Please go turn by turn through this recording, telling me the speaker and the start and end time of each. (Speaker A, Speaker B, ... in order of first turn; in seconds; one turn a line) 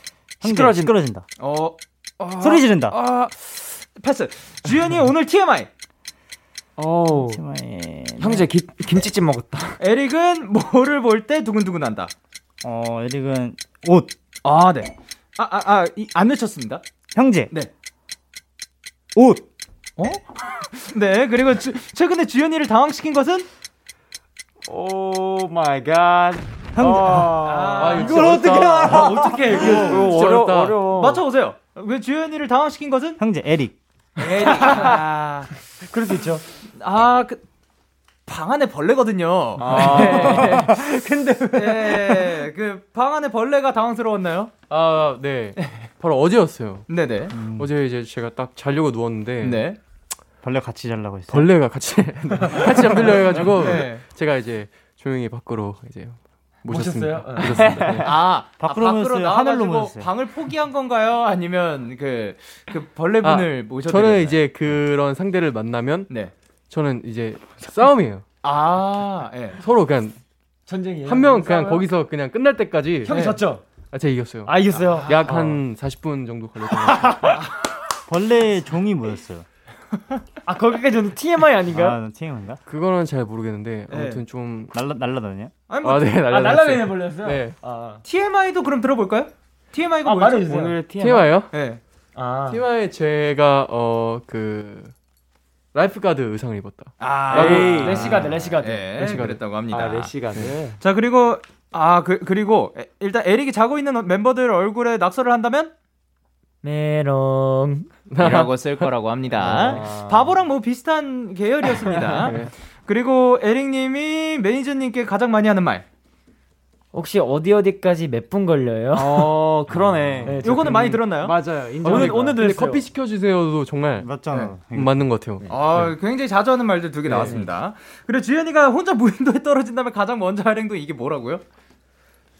Speaker A: 0.4-1.2
Speaker B: 0.4-0.9
Speaker C: 1.4-5.7
Speaker A: 2.4-3.0
Speaker B: 6.8-7.4
Speaker A: 7.1-8.5
Speaker B: 8.2-9.8
Speaker C: 9.8-12.1
Speaker A: 12.6-14.1
Speaker C: 14.4-16.8
Speaker A: 17.1-17.5
Speaker A: 19.1-19.4
Speaker C: 20.0-23.5
Speaker B: 24.7-27.5
Speaker A: 26.8-29.7
Speaker C: 27.4-28.6
Speaker D: 27.8-30.9
Speaker E: 28.2-30.0
Speaker B: 29.6-31.0
Speaker C: 30.9-33.2
Speaker A: 33.2-33.8
Speaker C: 34.2-35.5
Speaker E: 34.5-34.8
Speaker E: 35.9-36.4
Speaker C: 36.8-37.4
Speaker C: 38.3-40.8
Speaker B: 39.6-40.4
Speaker E: 39.7-40.1
Speaker D: 39.7-41.5
Speaker A: 40.5-40.9
Speaker C: 41.5-44.5
Speaker D: 44.7-46.9
Speaker C: 46.9-47.4
Speaker A: 47.3-47.7
Speaker D: 47.4-49.6
Speaker C: 49.4-49.8
Speaker A: 50.4-51.5
Speaker D: 51.3-58.1
Speaker C: 53.3-54.0
Speaker E: 56.7-58.1
Speaker C: 58.0-64.4
Speaker A: 58.6-60.1
Speaker D: 63.2-66.1
Speaker D: 66.7-68.2
Speaker C: 68.4-69.6
Speaker D: 69.6-70.2
Speaker E: 70.7-71.9
Speaker D: 71.0-73.3
Speaker E: 73.1-73.6
Speaker C: 73.1-73.4
Speaker D: 73.9-77.4
Speaker E: 74.5-75.6
Speaker A: 78.1-79.5
Speaker E: 80.5-82.0
Speaker A: 81.7-82.6
Speaker D: 82.7-84.7
Speaker C: 83.9-84.2
Speaker A: 84.7-85.5
Speaker C: 85.7-86.2
Speaker D: 85.8-87.6
Speaker E: 86.3-88.0
Speaker C: 88.0-90.7
Speaker E: 90.0-90.8
Speaker B: 90.4-91.3
Speaker D: 91.0-91.5
Speaker C: 91.5-91.8
Speaker E: 92.2-92.6
Speaker D: 92.5-94.9
Speaker D: 95.7-99.4
Speaker C: 97.0-100.1
Speaker B: 97.3-98.2
Speaker E: 97.3-99.0
Speaker B: 99.0-100.8
Speaker C: 100.8-105.7
Speaker E: 106.6-107.9
Speaker D: 108.1-108.9
Speaker C: 108.2-115.8
Speaker B: 109.4-110.2
Speaker E: 109.6-109.9
Speaker D: 112.2-112.5
Speaker E: 116.9-119.5
Speaker B: 118.9-122.4
Speaker E: 120.2-121.0
Speaker C: 120.4-121.4
Speaker E: 121.8-122.9
Speaker D: 121.8-124.1
Speaker A: 124.0-125.0
Speaker D: 124.7-125.9
Speaker C: 125.5-131.4